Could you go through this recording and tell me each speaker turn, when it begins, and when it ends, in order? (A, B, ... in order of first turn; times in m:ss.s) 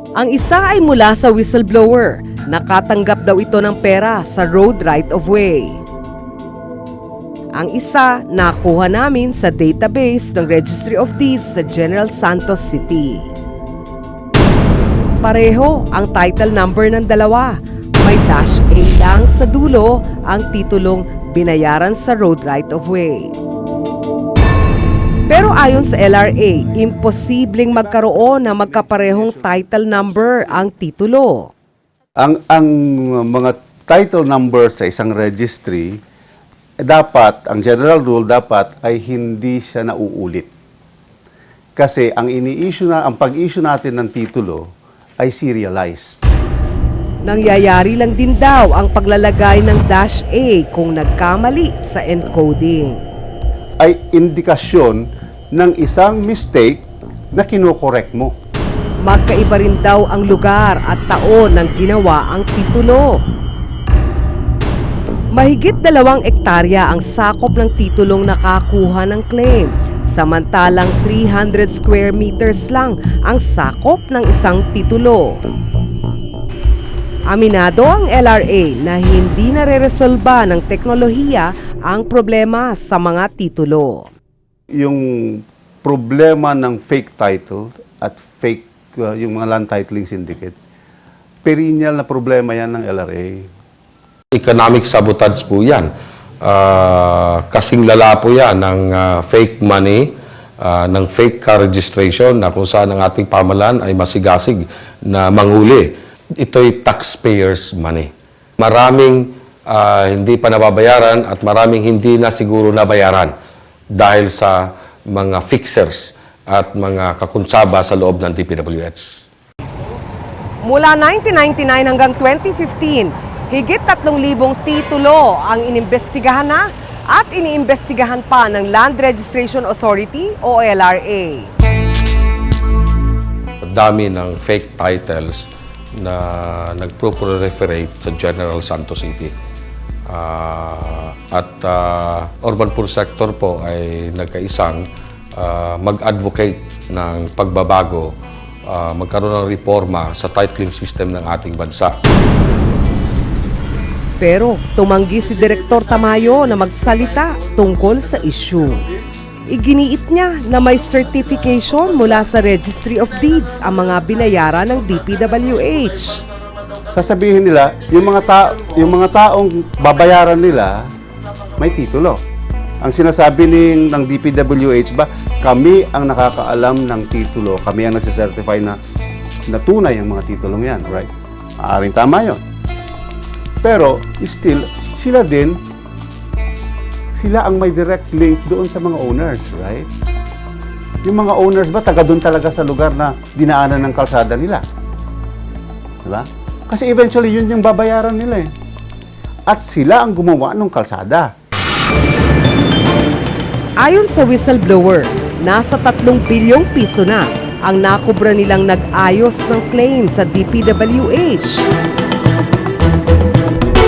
0:00.2-0:05.8 A
0:07.6-0:13.3 A
0:15.2-0:23.3 A
0:25.3-0:31.5 A
0:27.8-0:30.5 B
0:32.2-0:36.0 B
0:36.8-0:40.5 B
0:41.8-0:44.7 B
0:45.2-0:46.2 B
0:47.2-0:53.0 A
0:53.8-0:58.3 B
0:59.0-1:03.2 A
1:05.4-1:15.4 A
1:17.3-1:24.1 A
1:24.8-1:30.6 B
1:31.4-1:33.5 B
1:34.3-1:35.9 C
1:36.4-1:53.3 C
1:53.9-1:59.3 C
2:00.6-2:11.5 A
2:13.6-2:19.3 C
2:20.1-2:28.1 C
2:28.7-2:32.0 C
2:34.2-2:38.8 A
2:39.5-2:46.2 A
2:46.9-2:50.9 B
2:51.6-2:52.2 B
2:52.8-2:58.8 B
2:59.5-3:02.4 B
3:03.6-3:05.6 B
3:07.2-3:09.9 B
3:11.0-3:14.6 B
3:16.0-3:18.5 B
3:19.5-3:21.3 B
3:23.8-3:31.6 A